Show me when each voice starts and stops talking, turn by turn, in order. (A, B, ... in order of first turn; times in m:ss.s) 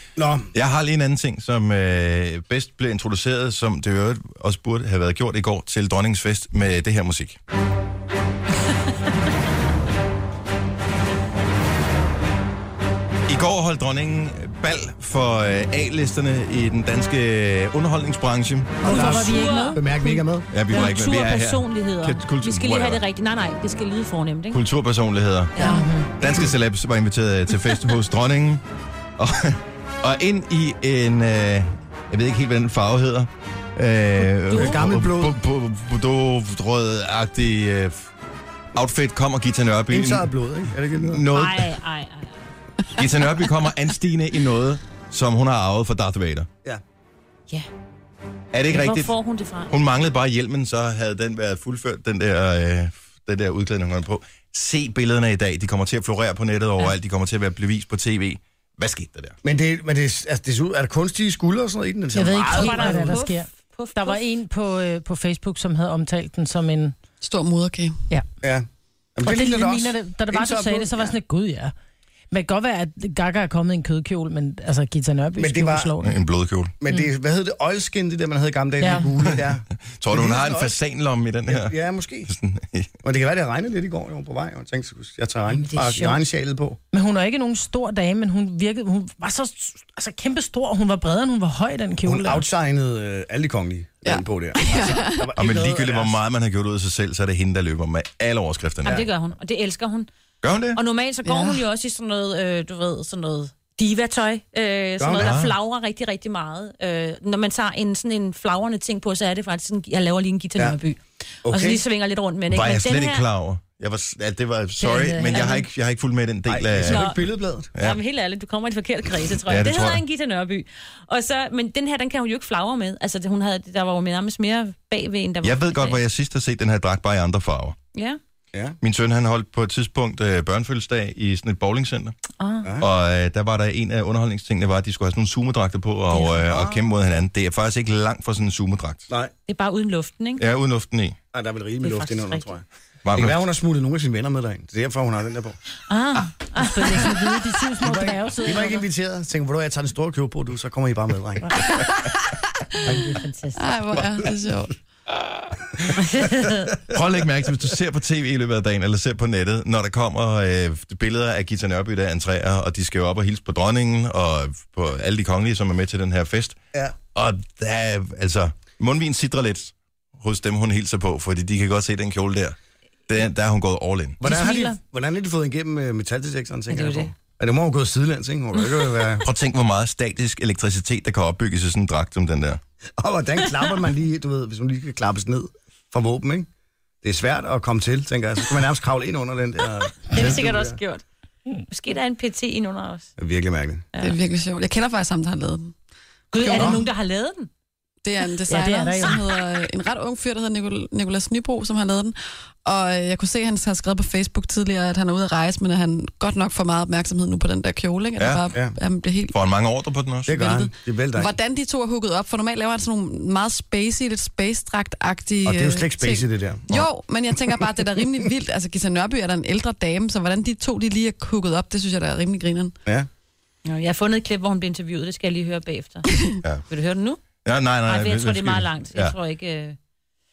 0:00.2-0:00.5 A
0:00.5-0:07.4 B
0:13.3-0:19.0 B
0:18.8-0:20.5 A
0:18.8-0:19.8 C
0:18.8-0:24.6 D
0:20.5-0:23.0 B
0:24.5-0:28.6 B
0:25.5-0:25.9 D
0:25.6-0:26.1 C
0:29.2-0:38.1 B
0:34.5-0:34.8 D
0:34.5-0:35.4 A
0:38.7-0:40.3 B
0:39.9-0:41.2 A
0:41.0-0:41.7 B
0:41.3-0:42.5 D
0:42.9-0:46.5 B
0:48.5-0:49.1 B
0:48.7-0:49.7 D
0:49.7-0:59.4 B
0:59.4-1:03.2 A
1:02.1-1:06.9 C
1:02.5-1:04.2 D
1:07.2-1:08.0 E
1:08.4-1:11.1 A
1:09.2-1:11.7 C
1:12.3-1:16.2 C
1:15.4-1:15.9 A
1:16.0-1:16.7 B
1:16.8-1:20.8 A
1:18.8-1:19.1 C
1:20.0-1:22.9 B
1:21.5-1:22.3 A
1:23.0-1:26.8 A
1:25.5-1:26.2 D
1:26.9-1:32.4 C
1:32.0-1:36.2 A
1:34.0-1:35.3 E
1:35.4-1:39.0 B
1:38.8-1:40.1 D
1:40.4-1:40.8 B
1:40.7-1:53.2 D
1:45.0-1:45.4 A
1:45.2-1:45.5 B
1:51.4-1:51.8 A
1:52.5-1:57.1 B
1:54.8-1:55.6 C
1:55.3-1:55.6 D
1:56.4-1:57.7 A
1:56.8-1:57.2 D
1:57.8-2:06.0 D
1:59.4-2:00.0 B
2:05.4-2:07.8 B
2:07.9-2:08.2 D
2:08.8-2:12.2 B
2:12.4-2:12.7 D
2:12.8-2:19.0 B
2:16.1-2:16.8 D
2:19.5-2:20.4 D
2:20.4-2:21.2 B
2:21.3-2:25.6 A
2:21.8-2:22.5 D
2:23.0-2:23.4 B
2:25.9-2:27.2 D
2:26.6-2:28.8 C
2:27.8-2:31.8 A
2:32.9-2:33.6 D
2:33.6-2:34.8 E
2:36.0-2:36.7 D
2:36.8-2:46.6 B
2:47.1-2:52.6 B
2:53.1-2:54.2 B
2:54.2-2:59.2 A
2:54.2-2:54.8 D
2:56.7-2:57.1 D
2:59.2-3:02.6 B
3:03.0-3:06.5 A
3:07.0-3:10.8 A
3:10.0-3:11.0 D
3:11.7-3:13.1 D
3:13.2-3:13.8 A
3:14.0-3:15.7 E
3:16.3-3:17.5 D
3:16.4-3:16.8 E
3:16.5-3:16.8 A
3:18.0-3:29.4 E
3:18.5-3:19.2 C
3:28.2-3:28.4 B
3:29.3-3:30.4 B
3:30.2-3:31.3 A
3:30.3-3:42.8 E
3:35.4-3:36.7 A
3:43.6-3:46.1 D
3:46.7-3:47.2 D
3:47.4-3:49.2 B
3:47.8-3:49.8 D